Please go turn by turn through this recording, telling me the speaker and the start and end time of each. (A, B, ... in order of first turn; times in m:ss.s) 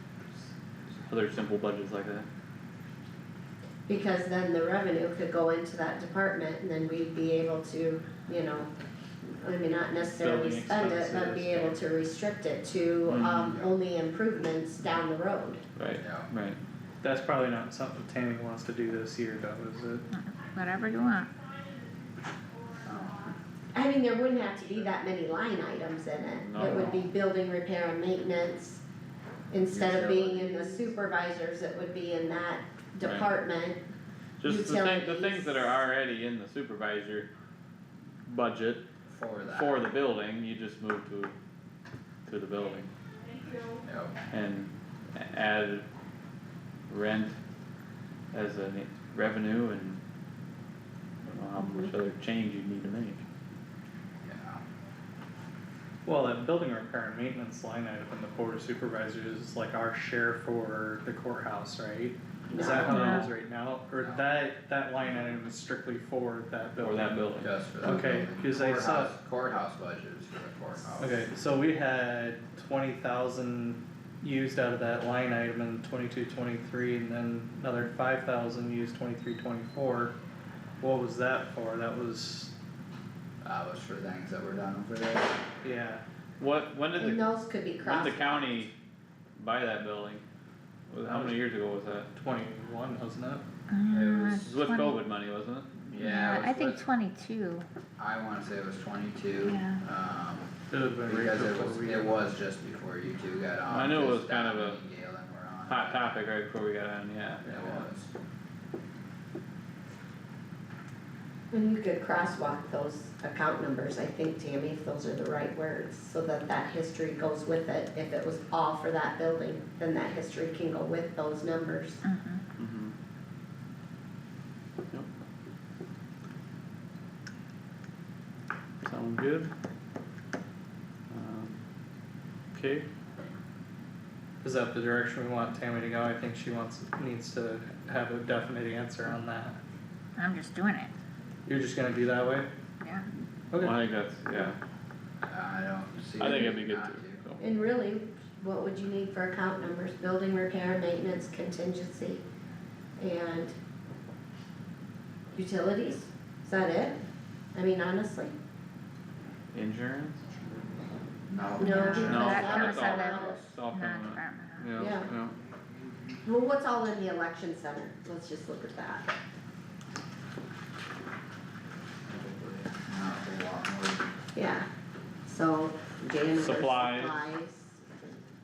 0:01.0-0:02.2 A
0:03.9-0:08.7 B
0:09.3-0:15.6 B
0:10.2-0:11.8 C
0:13.1-0:13.6 A
0:15.8-0:16.6 A
0:16.0-0:16.3 D
0:17.0-0:20.1 C
0:20.1-0:21.3 E
0:22.8-0:23.3 D
0:23.7-0:28.8 B
0:26.4-0:27.0 A
0:26.6-0:26.9 C
0:29.5-0:33.8 B
0:29.7-0:30.6 D
0:33.0-0:33.3 A
0:34.4-0:37.3 A
0:34.4-0:35.6 B
0:38.2-0:38.8 A
0:39.1-0:39.8 D
0:39.5-0:41.3 A
0:42.2-0:42.9 A
0:43.8-0:44.2 D
0:44.3-0:45.8 A
0:46.9-0:47.3 A
0:48.3-0:50.0 A
0:51.3-0:53.2 A
0:51.6-0:51.9 B
0:54.2-0:54.6 D
0:56.0-1:09.1 C
1:02.5-1:03.0 B
1:02.8-1:03.3 E
1:03.9-1:04.4 D
1:06.8-1:07.5 A
1:07.4-1:11.2 D
1:11.0-1:20.1 C
1:20.8-1:22.5 C
1:23.4-1:25.4 D
1:25.6-1:26.0 C
1:26.4-1:27.2 A
1:27.0-1:28.6 B
1:27.8-1:28.7 A
1:29.4-1:30.2 A
1:30.9-1:32.1 A
1:31.0-1:31.4 C
1:32.1-1:33.4 C
1:33.7-1:35.0 E
1:33.9-1:34.6 D
1:34.4-1:35.9 A
1:35.9-1:36.8 D
1:35.9-1:37.6 E
1:38.0-1:46.2 D
1:39.4-1:39.8 E
1:40.7-1:42.2 C
1:43.7-1:44.8 A
1:45.7-1:47.8 A
1:47.4-1:48.1 D
1:51.5-2:02.0 B
2:02.0-2:02.4 E
2:02.6-2:02.9 A
2:08.8-2:09.5 A
2:11.1-2:11.6 A
2:12.5-2:12.9 A
2:14.4-2:19.6 C
2:20.2-2:20.9 E
2:21.4-2:22.5 C
2:22.8-2:23.0 E
2:23.5-2:23.8 C
2:23.6-2:24.6 A
2:25.2-2:27.2 D
2:26.2-2:27.4 A
2:27.4-2:32.2 B
2:33.0-2:33.5 B
2:35.3-2:37.0 B
2:37.5-2:38.3 B
2:39.5-2:40.2 A
2:41.3-2:42.6 D
2:41.5-2:43.4 B
2:41.6-2:44.7 E
2:41.8-2:45.3 A
2:44.8-2:45.1 B
2:46.2-2:49.1 B
2:52.0-2:54.2 D
2:54.3-2:54.7 B
2:55.2-2:58.2 B
2:56.4-2:57.2 A